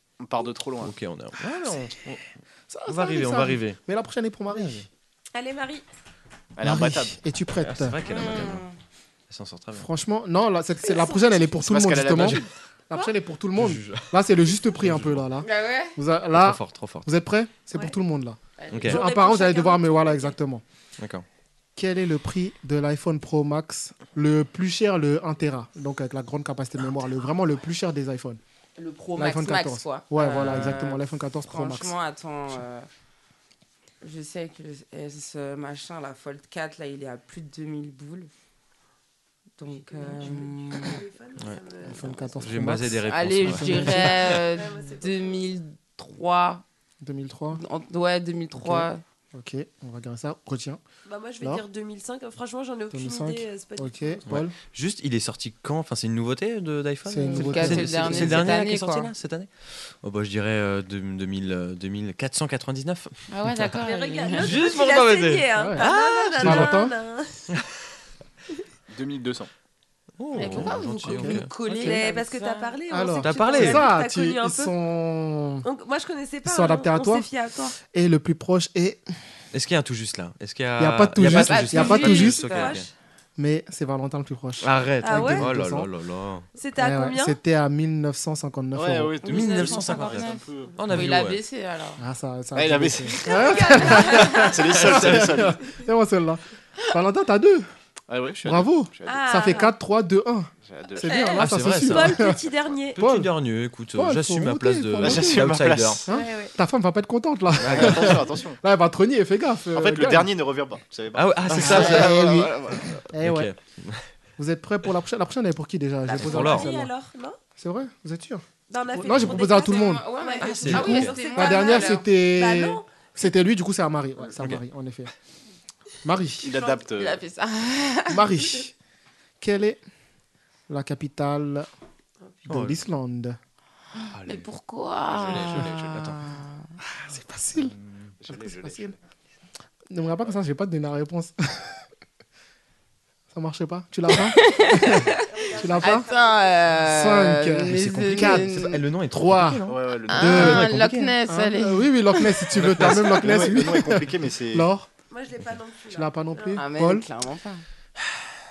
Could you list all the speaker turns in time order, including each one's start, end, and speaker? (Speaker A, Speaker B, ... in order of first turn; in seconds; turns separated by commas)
Speaker A: 0.2-0.9, Speaker B: 0.8-2.2, Speaker C: 2.7-4.8, Speaker B: 2.9-3.8, Speaker D: 5.3-5.8, Speaker A: 6.6-7.2, Speaker C: 6.6-8.0, Speaker B: 7.6-8.6, Speaker E: 8.0-8.8, Speaker B: 9.3-9.8, Speaker C: 9.8-20.6, Speaker A: 11.3-12.5, Speaker B: 12.2-12.4, Speaker B: 13.6-14.1, Speaker B: 14.7-15.2, Speaker E: 15.4-16.0, Speaker B: 16.3-17.1, Speaker E: 18.6-19.0, Speaker B: 18.7-19.0, Speaker D: 18.9-20.3, Speaker B: 21.0-21.2, Speaker C: 21.8-28.4, Speaker E: 28.8-32.9, Speaker C: 29.1-31.9, Speaker B: 30.4-30.8, Speaker E: 34.0-38.3, Speaker E: 39.6-41.0, Speaker D: 39.7-42.5, Speaker C: 41.8-44.3, Speaker B: 42.4-44.2, Speaker E: 43.0-46.6, Speaker D: 43.9-45.5, Speaker C: 47.0-47.6, Speaker E: 47.5-49.0, Speaker C: 48.5-50.8, Speaker D: 51.0-54.2, Speaker C: 52.9-54.5, Speaker B: 54.3-59.5, Speaker C: 57.0-58.5, Speaker E: 57.2-59.1, Speaker B: 60.0-63.7, Speaker E: 63.3-64.7, Speaker D: 63.8-67.4, Speaker B: 64.3-66.8, Speaker C: 65.5-66.9, Speaker A: 68.9-69.5, Speaker B: 70.2-71.5, Speaker C: 70.3-71.5, Speaker E: 70.3-72.8, Speaker D: 71.7-74.7, Speaker C: 72.9-75.7, Speaker B: 73.2-73.9, Speaker D: 75.6-77.8, Speaker C: 76.4-77.3, Speaker C: 77.9-79.0, Speaker B: 79.5-82.9, Speaker C: 80.8-82.4, Speaker E: 81.2-82.8, Speaker D: 81.8-82.9, Speaker C: 83.4-85.9, Speaker B: 84.6-86.5, Speaker D: 85.0-85.5, Speaker D: 86.6-87.4, Speaker C: 86.8-89.2, Speaker A: 88.7-90.8, Speaker E: 89.2-92.0, Speaker B: 89.2-91.4, Speaker C: 92.0-97.7, Speaker A: 92.5-95.6, Speaker D: 93.3-94.5, Speaker E: 93.3-94.5, Speaker B: 94.8-95.4, Speaker A: 98.1-99.5, Speaker C: 98.4-102.4, Speaker D: 99.0-99.7, Speaker A: 100.7-101.3, Speaker E: 101.0-101.5, Speaker B: 101.4-102.2, Speaker D: 101.8-103.0, Speaker C: 103.0-103.3, Speaker B: 103.0-106.0, Speaker C: 103.9-105.5, Speaker A: 105.0-106.1, Speaker C: 106.1-110.3, Speaker D: 106.1-106.5, Speaker A: 107.6-108.6, Speaker B: 107.6-108.2, Speaker A: 109.7-112.9, Speaker B: 111.1-114.0, Speaker C: 111.5-113.5, Speaker C: 114.4-116.9, Speaker D: 116.1-117.4, Speaker B: 116.2-116.7, Speaker C: 117.6-118.4, Speaker D: 118.7-122.9, Speaker C: 119.0-120.0, Speaker E: 119.5-122.1, Speaker B: 120.4-121.2, Speaker C: 120.6-125.1, Speaker C: 126.0-126.5, Speaker A: 126.4-127.2, Speaker D: 126.4-126.9, Speaker E: 126.9-128.6, Speaker C: 128.1-128.7, Speaker C: 129.4-129.8, Speaker C: 130.7-131.7, Speaker C: 132.4-133.4, Speaker B: 132.5-132.8, Speaker B: 134.2-134.4, Speaker E: 134.2-136.6, Speaker A: 135.1-136.2, Speaker C: 137.0-137.7, Speaker A: 138.2-138.9, Speaker C: 138.3-138.9, Speaker C: 139.9-141.8, Speaker C: 143.3-146.1, Speaker E: 144.1-145.3, Speaker D: 144.5-146.5, Speaker E: 145.8-148.8, Speaker C: 146.8-154.9, Speaker B: 147.7-149.8, Speaker A: 149.7-150.6, Speaker E: 150.1-152.4, Speaker B: 152.5-153.3, Speaker A: 152.6-154.7, Speaker D: 155.1-156.6, Speaker C: 155.9-157.1, Speaker E: 156.5-157.6